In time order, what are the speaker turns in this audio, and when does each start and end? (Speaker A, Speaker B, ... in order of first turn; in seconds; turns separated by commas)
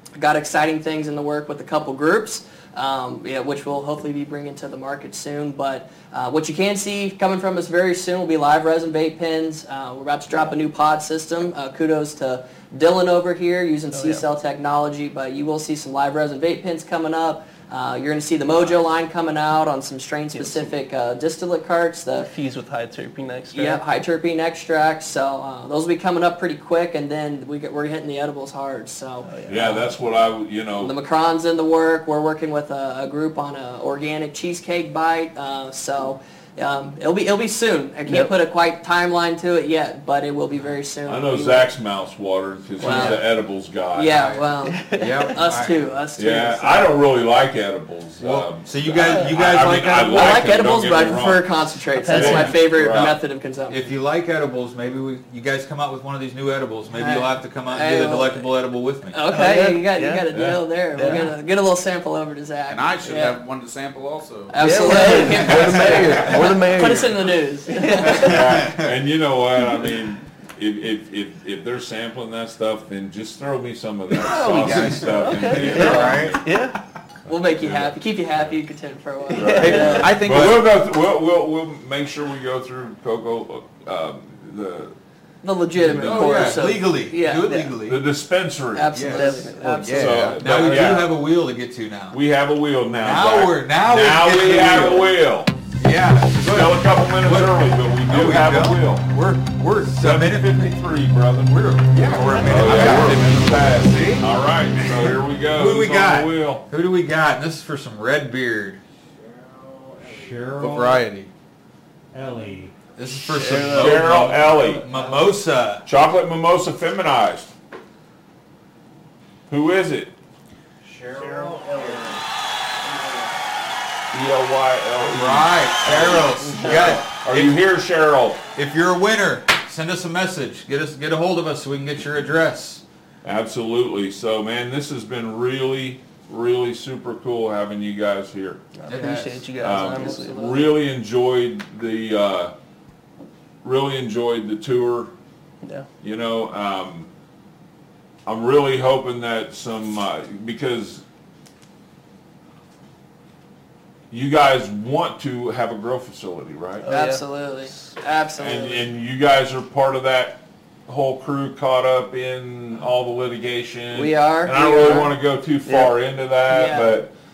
Speaker A: 0.2-22.3, Speaker B: 13.9-14.2, Speaker B: 20.3-20.7, Speaker B: 22.2-23.8, Speaker A: 23.5-29.3, Speaker B: 29.2-29.9, Speaker C: 29.5-30.9, Speaker A: 30.8-41.7, Speaker B: 38.1-38.3, Speaker C: 41.1-44.3, Speaker B: 42.8-43.2, Speaker A: 42.8-43.3, Speaker A: 43.9-46.9, Speaker D: 44.1-45.8, Speaker B: 44.7-45.4, Speaker C: 46.2-51.5, Speaker D: 48.2-50.4, Speaker B: 49.1-49.3, Speaker A: 50.1-53.8, Speaker B: 52.0-52.6, Speaker C: 52.1-53.2, Speaker D: 53.7-59.2, Speaker A: 57.0-58.5, Speaker A: 59.1-63.4, Speaker B: 59.3-60.3, Speaker C: 60.3-60.6, Speaker B: 61.0-61.3, Speaker E: 62.7-64.7, Speaker A: 64.5-68.4, Speaker B: 64.6-68.4, Speaker D: 68.0-69.0, Speaker C: 68.2-76.5, Speaker B: 74.1-76.8, Speaker D: 74.5-76.4, Speaker A: 77.3-80.1, Speaker C: 77.6-78.0, Speaker B: 79.3-80.1, Speaker C: 79.3-85.0, Speaker E: 79.6-80.7, Speaker D: 80.2-80.6, Speaker A: 85.4-87.5, Speaker D: 85.8-88.0, Speaker C: 85.9-86.4, Speaker C: 87.8-89.0, Speaker A: 88.7-90.2, Speaker D: 89.0-89.3, Speaker B: 89.0-89.8, Speaker E: 89.6-90.5, Speaker C: 89.9-91.2, Speaker D: 90.3-92.2, Speaker C: 92.1-95.5, Speaker D: 93.0-95.1, Speaker D: 95.8-100.7, Speaker C: 96.4-99.1, Speaker C: 99.8-106.7, Speaker D: 101.5-108.8, Speaker E: 102.5-104.0, Speaker F: 109.1-110.7, Speaker D: 110.0-111.1, Speaker E: 110.6-111.3, Speaker F: 112.1-112.8, Speaker D: 113.0-115.8, Speaker B: 113.1-114.8, Speaker C: 113.7-114.9, Speaker F: 114.8-115.3, Speaker C: 115.8-117.5, Speaker C: 119.5-120.2, Speaker F: 120.8-122.3, Speaker D: 121.0-122.1, Speaker F: 122.8-123.4, Speaker C: 124.1-128.4, Speaker D: 125.0-127.6, Speaker D: 128.6-132.8, Speaker C: 133.2-138.6, Speaker B: 138.8-140.6, Speaker D: 138.9-139.5, Speaker C: 139.6-142.5, Speaker A: 139.9-140.7, Speaker C: 143.6-145.1, Speaker C: 146.0-147.1, Speaker C: 148.3-151.0, Speaker C: 154.1-156.9, Speaker B: 156.8-157.9, Speaker A: 156.9-158.9, Speaker C: 158.4-167.1, Speaker A: 163.9-165.1, Speaker B: 165.7-165.9, Speaker A: 166.5-167.0